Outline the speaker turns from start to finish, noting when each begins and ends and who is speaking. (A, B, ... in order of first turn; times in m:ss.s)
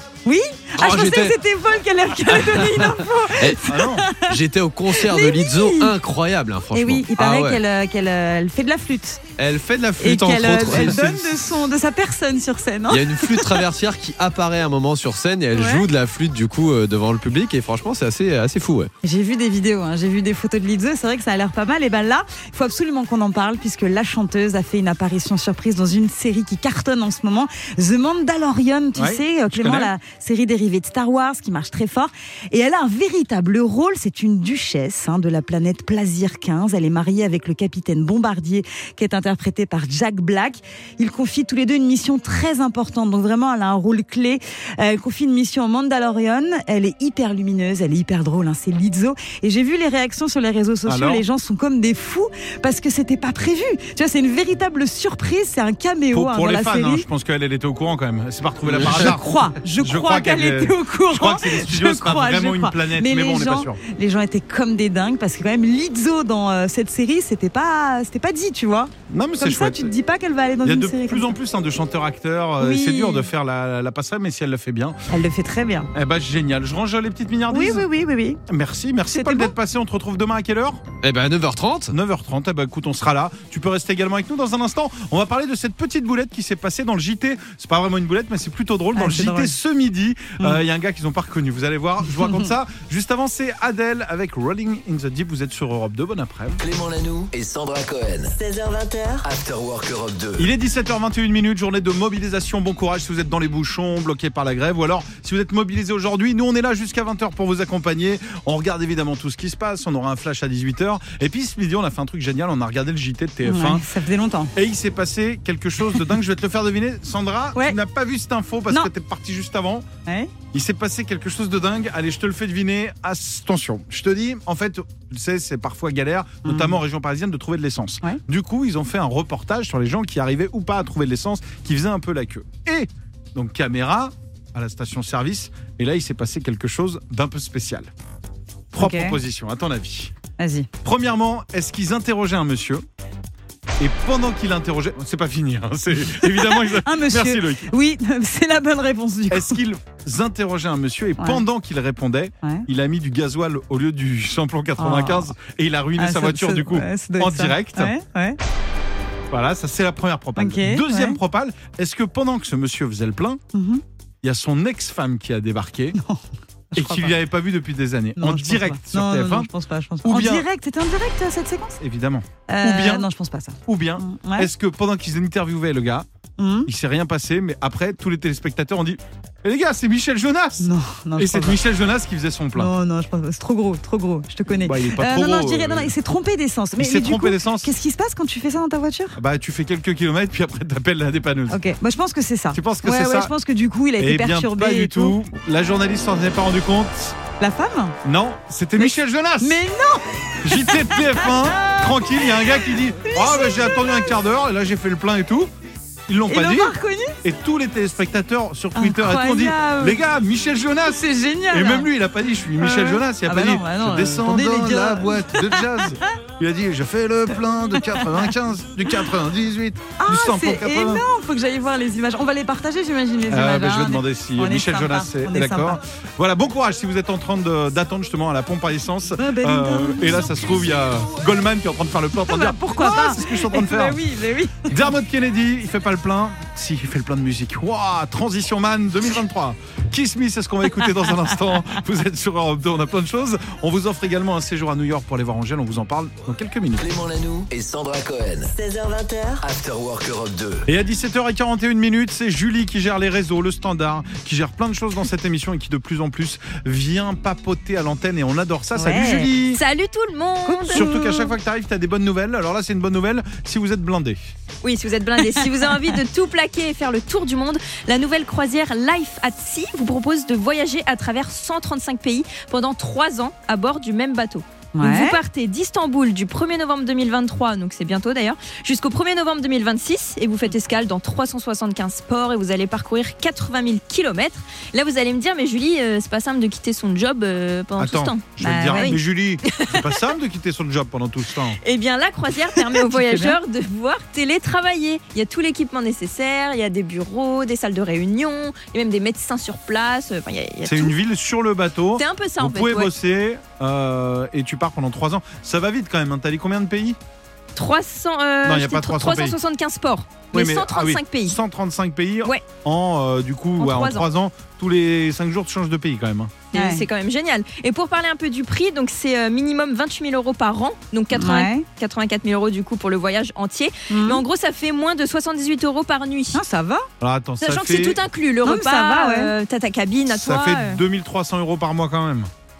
0:00.2-0:06.0 A
0:00.8-0:01.4 B
0:02.3-0:03.6 B
0:03.6-0:04.1 C
0:04.2-0:07.6 B
0:06.7-0:09.2 A
0:09.4-0:11.3 B
0:10.0-0:13.7 A
0:10.7-0:11.1 C
0:12.9-0:18.9 B
0:15.5-0:15.9 A
0:19.0-0:57.1 A
0:29.0-0:29.9 C
0:50.8-0:51.2 C
0:56.1-1:03.8 C
0:58.7-0:59.1 B
0:58.8-1:11.4 A
1:09.1-1:09.9 C
1:10.6-1:15.0 C
1:12.6-1:13.3 A
1:15.1-1:15.9 A
1:15.9-1:17.9 C
1:17.5-1:18.4 A
1:18.5-1:20.8 C
1:19.1-1:19.5 A
1:21.0-1:22.0 B
1:21.9-1:36.6 C
1:28.9-1:29.6 A
1:32.1-1:32.5 A
1:36.6-1:38.3 D
1:38.3-1:39.3 E
1:39.2-1:40.5 D
1:40.4-1:53.8 C
1:53.4-1:54.5 A
1:54.6-1:59.9 C
2:00.1-2:00.3 A
2:00.5-2:17.9 C
2:06.4-2:06.8 A
2:18.7-2:20.2 C
2:18.8-2:19.2 A
2:20.4-2:20.7 A
2:20.8-2:22.8 C
2:23.8-2:27.7 C
2:26.2-2:29.6 A
2:29.3-2:37.9 C
2:31.2-2:31.4 A
2:34.8-2:35.3 A
2:36.0-2:38.4 A
2:39.3-2:43.4 C
2:40.4-2:41.2 A
2:43.5-2:43.8 A
2:44.2-2:46.0 C
2:46.0-2:46.2 A
2:46.7-2:47.2 A
2:46.8-2:49.5 C
2:48.2-2:51.8 A
2:50.0-2:50.5 C
2:51.8-2:53.1 C
2:52.5-2:54.5 A
2:53.7-2:56.1 C
2:56.4-2:56.7 A
2:56.7-3:02.7 C
3:00.6-3:01.6 A
3:02.6-3:09.2 A
3:04.6-3:05.9 C
3:06.8-3:07.7 C
3:09.2-3:11.6 C
3:11.5-3:15.2 A
3:12.5-3:13.3 C
3:14.0-3:17.2 C
3:17.4-3:18.0 A
3:18.0-3:19.6 C
3:18.8-3:24.1 A
3:20.4-3:25.5 C
3:26.1-3:41.0 C
3:26.3-3:27.2 A
3:28.8-3:30.0 A
3:30.9-3:31.9 A
3:32.6-3:36.0 A
3:37.8-3:38.3 A
3:40.0-3:45.8 A
3:43.3-3:54.0 C
3:49.2-3:50.3 A
3:52.2-3:54.9 A
3:54.7-4:06.8 C
4:06.8-4:08.5 D
4:08.5-4:09.4 E
4:09.4-4:10.6 D
4:10.7-4:19.6 C
4:18.8-4:19.3 A
4:19.5-4:20.9 F
4:20.4-4:21.3 A
4:20.7-4:24.3 C
4:24.6-4:50.0 F
4:25.2-4:26.0 A
4:34.8-4:35.2 A
4:47.8-4:51.6 C
4:48.4-4:49.0 A
4:51.6-5:00.9 F
4:52.6-4:53.4 A
5:00.6-5:07.0 C
5:02.0-5:02.9 F
5:07.6-5:11.4 F
5:08.4-5:09.4 C
5:10.3-5:16.4 C
5:13.6-5:14.1 F
5:16.5-5:16.9 A
5:16.5-5:26.4 F
5:21.1-5:21.7 A
5:23.9-5:24.2 A
5:26.3-5:26.9 A
5:27.0-5:28.0 C
5:27.4-5:30.8 F
5:28.4-5:29.3 A
5:30.1-5:32.3 C